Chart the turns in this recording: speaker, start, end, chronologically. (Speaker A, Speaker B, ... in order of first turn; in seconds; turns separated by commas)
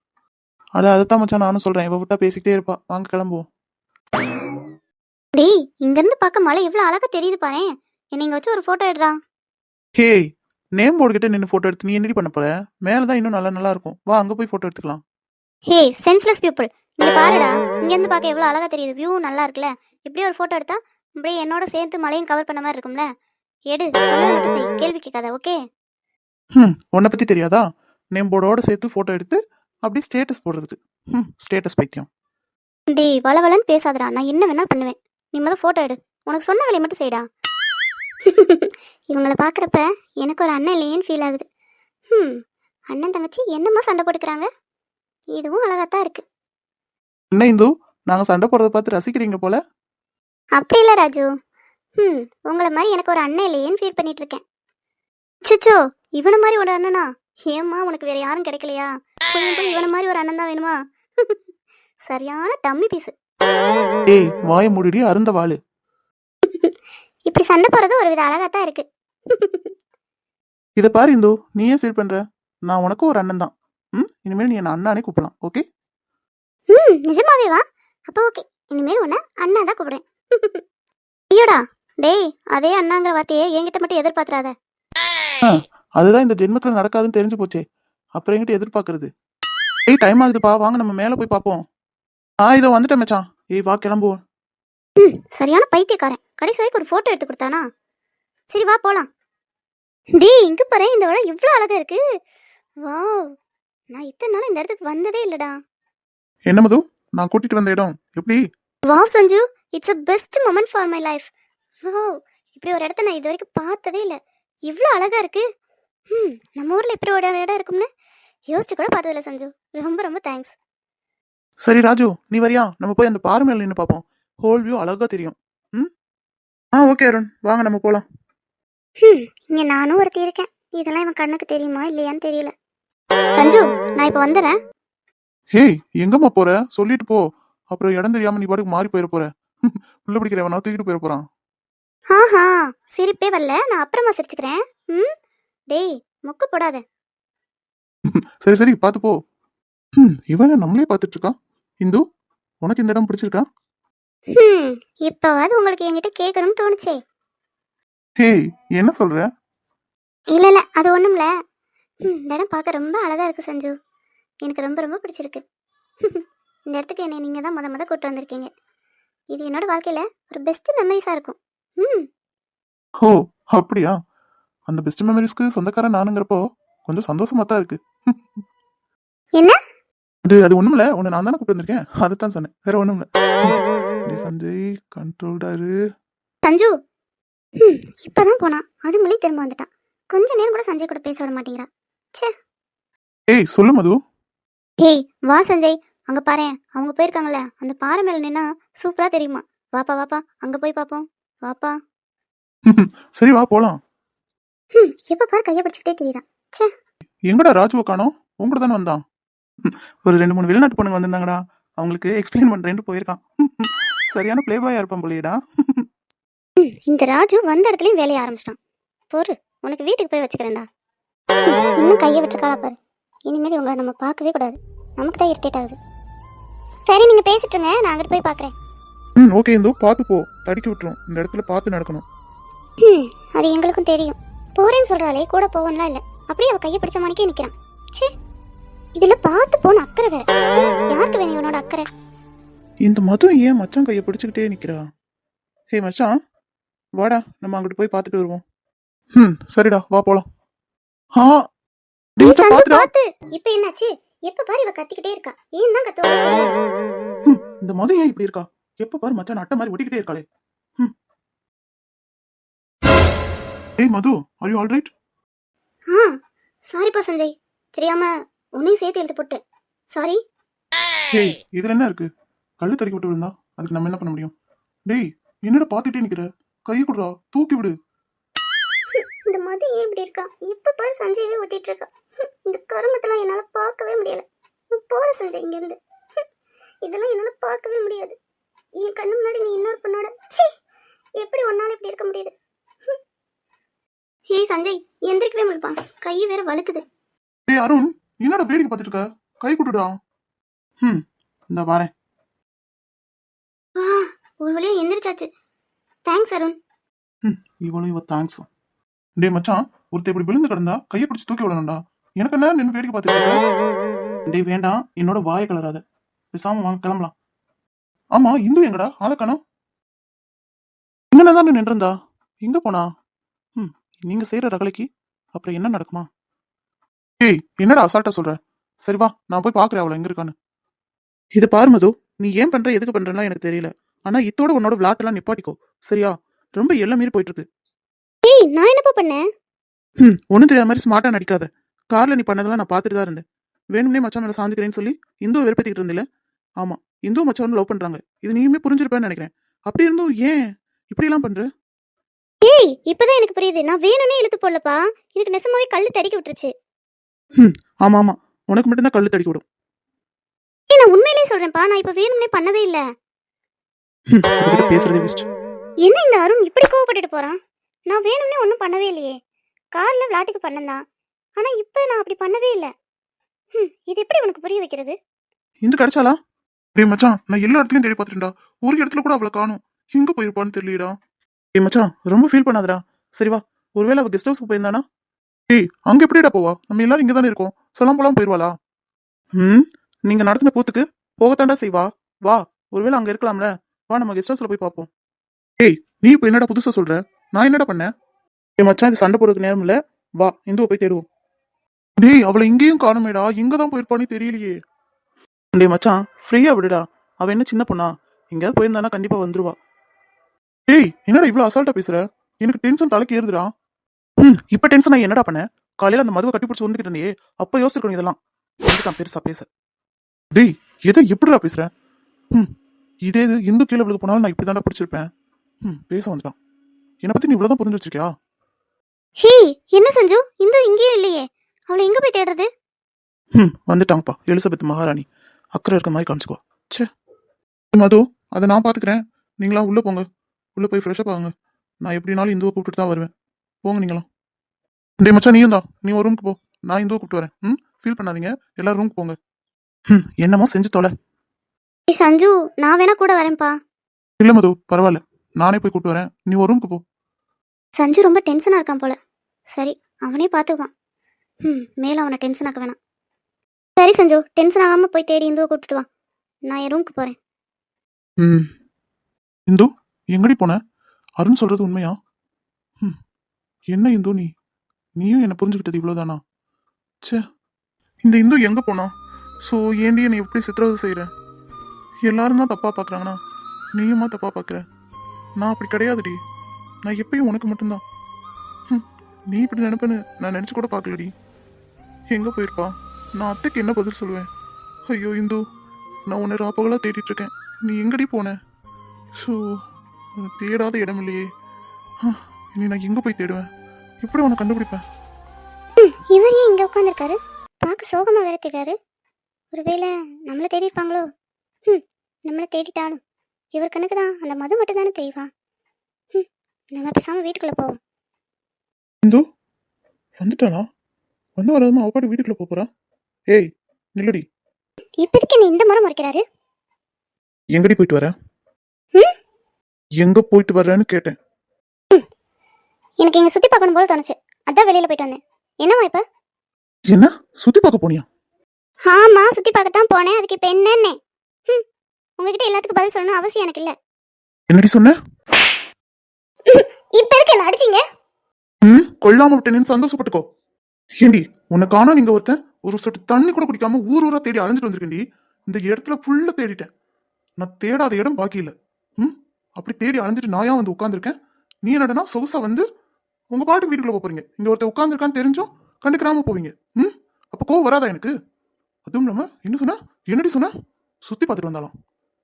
Speaker A: 0.8-3.5, Speaker B: 5.3-9.2, Speaker A: 10.0-10.2, Speaker A: 10.8-15.0, Speaker B: 15.7-23.1, Speaker B: 23.7-25.6, Speaker A: 26.6-32.1, Speaker B: 32.9-37.2, Speaker B: 38.3-41.5, Speaker B: 42.1-42.4, Speaker B: 42.9-44.5, Speaker B: 45.4-46.2, Speaker A: 47.3-49.6, Speaker B: 50.6-51.3, Speaker B: 52.0-54.4, Speaker B: 55.5-61.4, Speaker B: 62.1-63.1, Speaker A: 64.1-65.6, Speaker B: 66.5-66.7, Speaker B: 67.3-69.7, Speaker A: 70.8-75.6, Speaker B: 76.7-80.6, Speaker B: 81.3-84.5, Speaker A: 85.4-87.6, Speaker A: 88.2-89.1, Speaker A: 89.9-91.6, Speaker A: 92.4-94.2, Speaker B: 95.0-97.6, Speaker B: 98.5-99.1, Speaker B: 100.2-102.0, Speaker B: 102.9-103.3, Speaker B: 103.9-105.6, Speaker A: 106.5-108.4, Speaker B: 108.8-111.3, Speaker B: 111.8-115.4, Speaker B: 116.1-117.9, Speaker B: 118.5-120.5, Speaker A: 121.6-125.9, Speaker A: 126.8-128.1, Speaker B: 129.0-132.5, Speaker B: 133.3-134.6, Speaker A: 135.5-141.2, Speaker B: 142.1-145.1, Speaker B: 145.7-146.8, Speaker A: 148.1-149.2, Speaker A: 150.0-152.0, Speaker A: 152.6-153.5, Speaker B: 154.3-157.0, Speaker A: 158.2-159.3, Speaker B: 160.3-161.3, Speaker B: 162.1-163.8, Speaker B: 164.4-165.4, Speaker B: 166.0-168.5, Speaker B: 169.3-172.1, Speaker A: 173.0-174.0, Speaker A: 174.7-178.2, Speaker A: 180.2-183.6, Speaker A: 184.1-185.7, Speaker B: 186.4-186.8, Speaker B: 187.6-192.3, Speaker A: 193.3-194.0, Speaker B: 194.8-201.8, Speaker A: 202.7-203.8, Speaker B: 204.8-206.7, Speaker A: 207.3-209.0, Speaker A: 209.7-215.8, Speaker B: 216.6-218.6, Speaker B: 219.1-220.7, Speaker B: 221.5-222.8, Speaker B: 223.3-225.8, Speaker B: 226.9-228.5, Speaker A: 229.2-232.1, Speaker B: 232.8-238.1, Speaker B: 239.0-240.3, Speaker B: 240.9-241.9, Speaker A: 242.8-244.8, Speaker A: 245.7-246.1, Speaker A: 247.0-248.4, Speaker A: 249.2-250.3, Speaker A: 251.2-251.4, Speaker A: 252.2-252.9, Speaker B: 252.2-256.6, Speaker A: 257.2-260.2, Speaker A: 263.8-264.9, Speaker B: 265.9-266.1, Speaker B: 266.7-269.4, Speaker B: 269.9-270.2, Speaker A: 271.1-272.1, Speaker A: 272.6-274.3, Speaker A: 274.9-277.8, Speaker B: 278.9-285.8, Speaker B: 286.8-288.2, Speaker B: 288.8-290.5, Speaker B: 291.2-292.3, Speaker B: 294.3-296.8, Speaker A: 297.5-299.9, Speaker A: 300.8-301.9, Speaker B: 303.8-305.3, Speaker B: 306.1-306.6, Speaker A: 307.2-308.5, Speaker A: 309.2-313.4, Speaker A: 314.3-315.8, Speaker A: 316.3-317.1, Speaker A: 318.1-319.4, Speaker A: 321.1-322.9, Speaker A: 323.6-326.1, Speaker A: 327.2-330.3, Speaker A: 331.4-337.5, Speaker B: 338.2-339.2, Speaker A: 340.0-343.2, Speaker A: 343.7-346.0, Speaker A: 346.6-351.5, Speaker B: 352.4-356.5, Speaker A: 357.4-359.4, Speaker B: 360.7-362.8, Speaker A: 364.1-365.3, Speaker B: 365.8-367.4, Speaker B: 367.9-369.2, Speaker B: 369.8-370.8, Speaker B: 371.4-372.7, Speaker B: 373.5-375.0, Speaker A: 375.6-376.2, Speaker A: 376.8-380.9, Speaker A: 381.6-384.8, Speaker A: 385.5-388.5, Speaker A: 389.4-394.9, Speaker A: 395.6-397.9, Speaker A: 398.6-401.1, Speaker A: 402.0-404.6, Speaker A: 405.5-409.6, Speaker A: 410.7-413.5, Speaker A: 414.2-419.5, Speaker A: 420.4-421.7, Speaker A: 423.1-425.1, Speaker A: 425.6-426.4, Speaker A: 427.0-428.1, Speaker B: 429.2-432.5, Speaker A: 433.4-436.9, Speaker A: 437.7-440.1, Speaker A: 440.6-441.3, Speaker A: 441.8-443.1, Speaker A: 443.6-444.1, Speaker A: 445.0-449.2, Speaker A: 449.9-450.9, Speaker B: 451.9-453.6, Speaker A: 454.2-456.8, Speaker B: 457.8-459.0, Speaker B: 459.5-460.7, Speaker B: 461.4-462.8, Speaker B: 463.8-465.9, Speaker B: 466.5-467.2, Speaker A: 468.2-468.5, Speaker A: 469.5-470.6, Speaker A: 471.2-472.0, Speaker A: 473.7-474.3, Speaker A: 475.0-476.2, Speaker A: 478.1-478.9, Speaker A: 479.4-481.1, Speaker A: 482.0-483.2, Speaker A: 483.8-484.6, Speaker A: 485.4-486.2, Speaker A: 486.9-487.8, Speaker A: 488.7-491.1, Speaker A: 492.1-494.3, Speaker A: 494.9-495.4, Speaker A: 496.1-498.4, Speaker A: 499.2-499.6, Speaker A: 500.2-501.3, Speaker A: 502.0-503.5, Speaker A: 504.0-504.8, Speaker B: 505.8-508.8, Speaker B: 509.5-511.1, Speaker B: 511.7-513.0, Speaker B: 513.5-515.3, Speaker B: 516.1-517.8, Speaker A: 520.2-520.7, Speaker A: 521.4-522.7, Speaker A: 523.3-524.2, Speaker B: 525.0-526.2, Speaker A: 527.5-528.1, Speaker A: 530.0-531.2, Speaker B: 533.0-536.0, Speaker A: 536.9-538.1, Speaker B: 538.9-541.0, Speaker B: 542.2-543.7, Speaker A: 544.5-545.0, Speaker B: 546.5-547.8, Speaker A: 548.6-550.2, Speaker A: 551.0-556.7, Speaker A: 557.4-562.7, Speaker A: 563.3-568.1, Speaker A: 568.9-570.5, Speaker A: 571.1-571.7